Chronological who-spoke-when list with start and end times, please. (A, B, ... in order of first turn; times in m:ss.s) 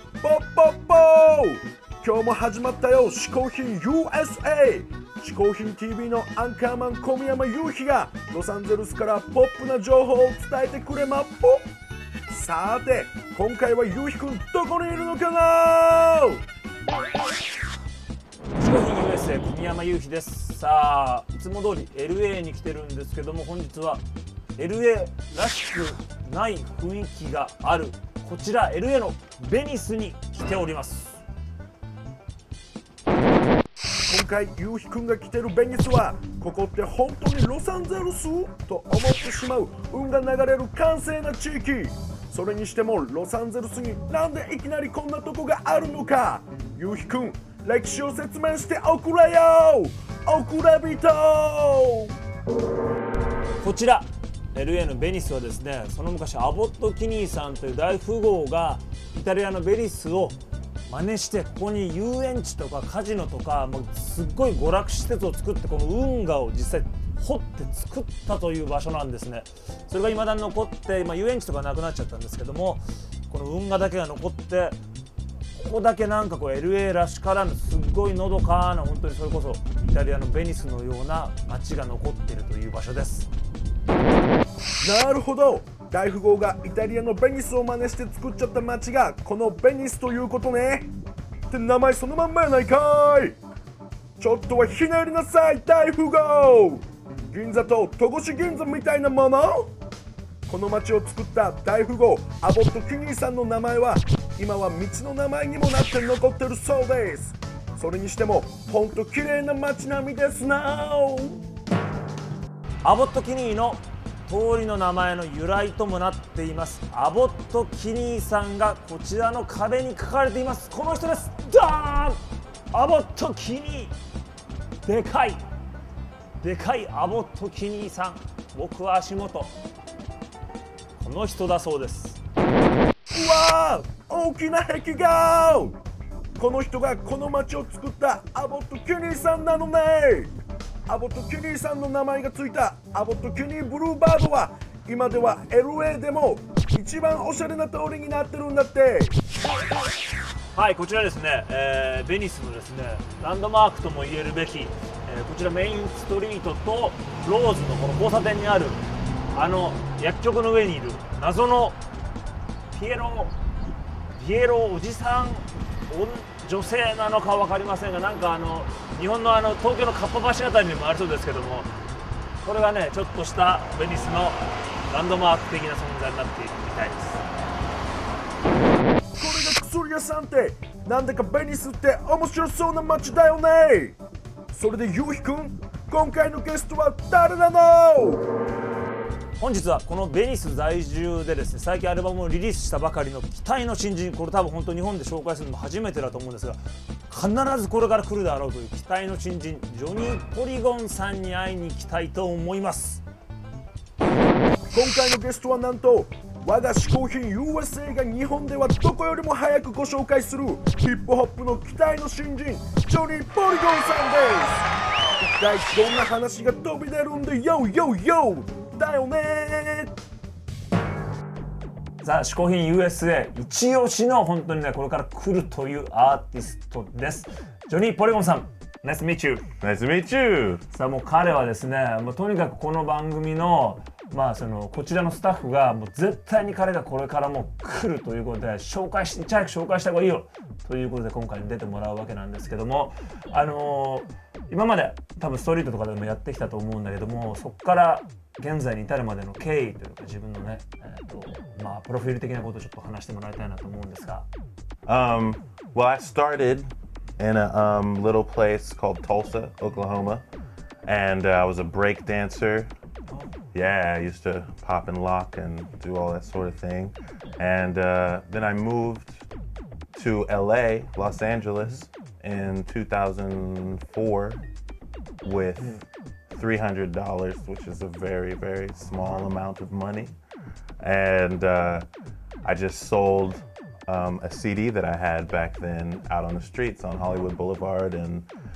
0:00.2-0:11.7 A
0:12.3-0:16.4 A
0:18.5-0:24.0 B
0:24.6-0:31.2 B
0:34.1-0:52.1 A
0:53.6-1:14.8 B
1:15.5-1:23.3 B
1:24.8-1:30.9 A
1:31.5-1:33.4 A
1:34.2-1:39.7 A
1:40.5-1:51.4 A
1:52.8-2:02.2 B
2:02.7-2:03.9 B
2:04.8-2:05.4 B
2:06.4-2:09.5 B
2:11.0-2:12.2 B
2:13.1-2:15.8 A
2:16.4-2:20.3 A
2:20.9-2:29.2 A
2:30.5-2:41.8 B
2:42.7-2:43.3 B
2:44.1-2:51.7 B
2:52.4-2:57.2 B
2:59.2-3:04.0 A
3:04.5-3:08.2 A
3:09.4-3:23.0 B
3:24.7-3:39.9 A
3:42.0-3:49.4 B
3:49.6-3:50.6 C
3:50.7-4:14.3 B
4:14.9-4:20.2 C
4:20.8-4:22.7 C
4:23.1-4:23.3 B
4:23.5-4:29.2 C
4:29.9-4:34.4 C
4:35.2-4:40.1 C
4:40.8-4:41.9 C
4:42.4-4:48.3 C